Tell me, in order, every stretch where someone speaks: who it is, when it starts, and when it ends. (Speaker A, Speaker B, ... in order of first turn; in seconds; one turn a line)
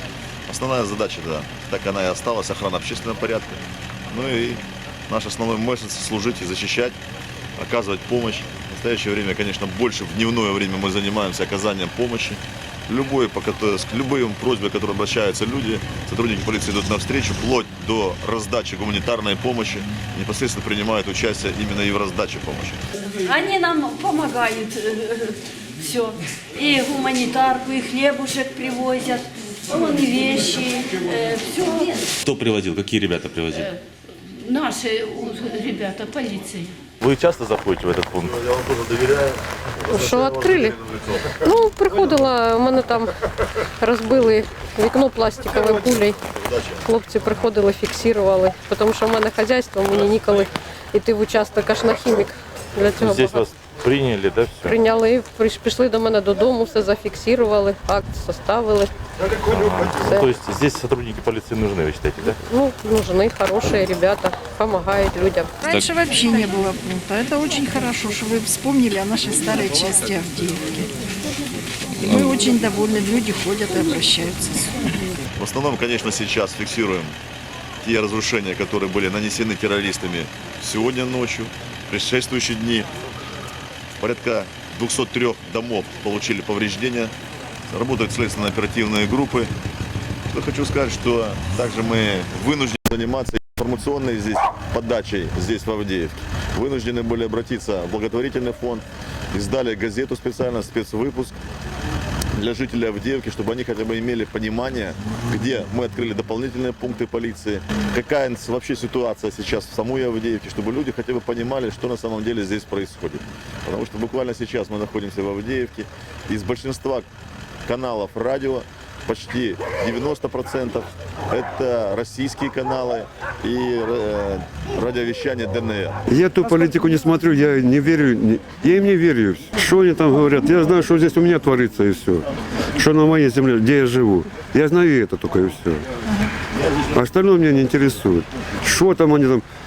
Speaker A: 0.5-7.0
Speaker A: 7.6-22.8
Speaker B: 23.1-32.1
Speaker C: 32.2-33.7
Speaker B: 33.5-33.8
Speaker B: 34.3-36.8
Speaker C: 37.0-38.4
Speaker A: 38.3-41.2
Speaker D: 39.9-40.8
Speaker D: 41.3-43.1
Speaker D: 43.8-46.2
Speaker D: 46.8-53.5
Speaker C: 53.0-54.7
Speaker D: 54.6-58.9
Speaker C: 59.5-62.4
Speaker D: 60.0-60.3
Speaker D: 62.3-65.5
Speaker E: 65.6-70.9
Speaker E: 72.0-74.7
Speaker A: 75.3-77.2
Speaker A: 77.8-82.9
Speaker A: 84.0-87.1
Speaker A: 87.7-89.5
Speaker A: 90.3-101.3
Speaker A: 102.3-117.1
Speaker A: 117.7-126.0
Speaker F: 126.1-132.3
Speaker F: 132.8-135.8
Speaker F: 136.9-139.4